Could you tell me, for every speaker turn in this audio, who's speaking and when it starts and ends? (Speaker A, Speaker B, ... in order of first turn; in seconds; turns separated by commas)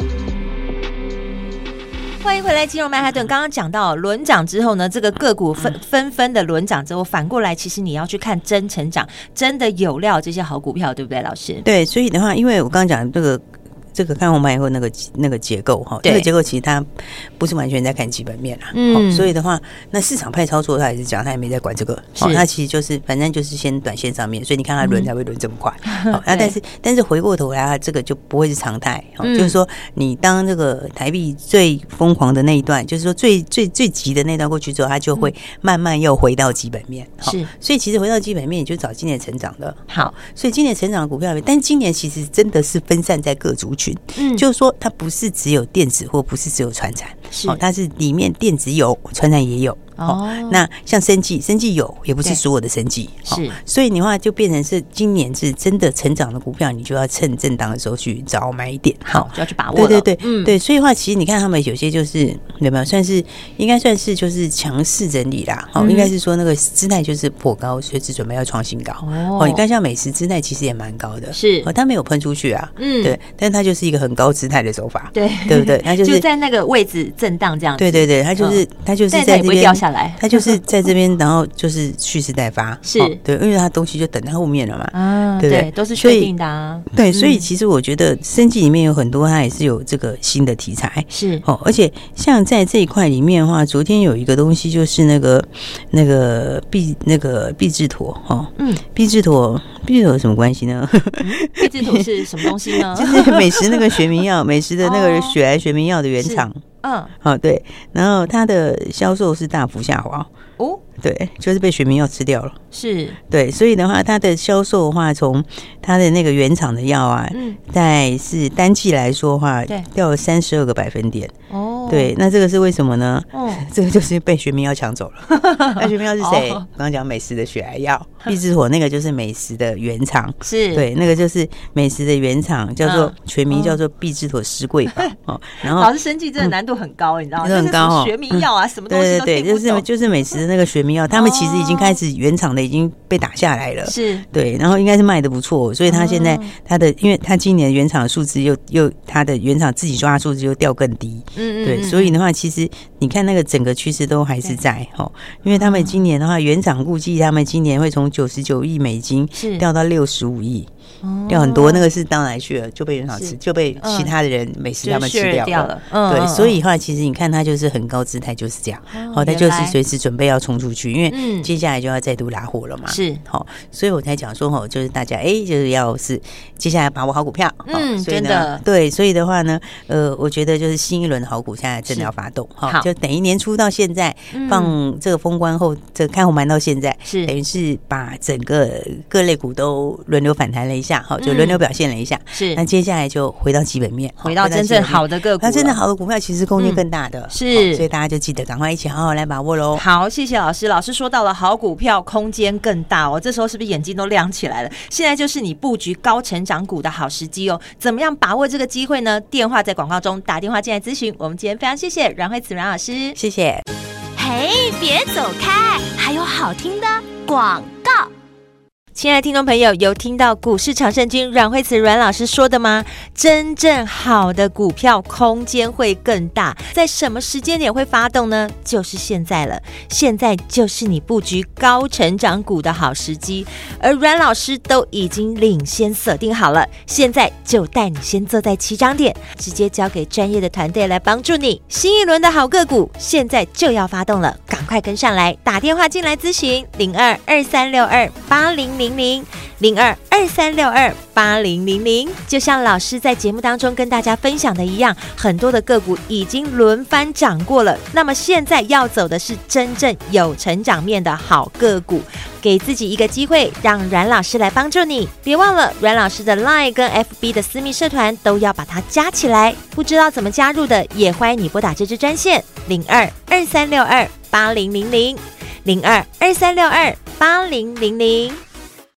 Speaker A: 2.2-11.6, Speaker B: 11.6-76.2, Speaker A: 16.0-16.3, Speaker A: 18.7-19.3, Speaker A: 22.2-22.4, Speaker A: 24.8-25.1, Speaker A: 25.9-26.6, Speaker A: 29.2-29.6, Speaker A: 37.2-37.5, Speaker A: 44.1-44.5, Speaker A: 47.3-47.6, Speaker A: 50.0-50.6, Speaker A: 53.3-53.6, Speaker A: 59.0-60.5, Speaker A: 65.8-66.1, Speaker A: 69.0-69.6, Speaker A: 71.3-71.7, Speaker A: 72.8-73.2, Speaker A: 75.1-80.6, Speaker B: 77.8-86.3, Speaker A: 82.8-83.2, Speaker A: 84.9-87.5, Speaker B: 86.9-106.6, Speaker A: 91.1-91.4, Speaker A: 98.6-98.8, Speaker A: 101.2-104.0, Speaker A: 104.8-105.4, Speaker A: 106.2-107.1, Speaker B: 107.2-110.3, Speaker B: 111.0-112.6, Speaker A: 112.7-113.2, Speaker B: 113.3-121.3, Speaker A: 117.3-117.6, Speaker A: 121.5-122.1, Speaker B: 121.9-136.5, Speaker A: 123.3-123.7, Speaker A: 125.3-126.6, Speaker A: 130.4-130.9, Speaker A: 132.8-133.8, Speaker A: 135.6-140.4, Speaker B: 137.4-160.7, Speaker A: 141.1-142.0, Speaker A: 143.8-144.2, Speaker A: 145.9-146.5, Speaker A: 151.3-152.2, Speaker A: 155.5-156.0, Speaker A: 159.3-159.6, Speaker A: 161.0-161.8, Speaker B: 161.3-199.8, Speaker A: 163.1-164.1, Speaker A: 164.8-166.6, Speaker A: 168.9-169.8, Speaker A: 171.1-171.5, Speaker A: 172.9-173.2, Speaker A: 177.7-178.6, Speaker A: 184.3-184.8, Speaker A: 187.0-187.3, Speaker A: 191.2-191.6, Speaker A: 192.3-192.6, Speaker A: 194.2-195.8, Speaker A: 196.6-197.8, Speaker A: 199.8-213.2, Speaker B: 213.2-213.6, Speaker C: 214.2-217.9, Speaker A: 215.0-215.3, Speaker A: 215.9-217.7, Speaker A: 218.9-278.4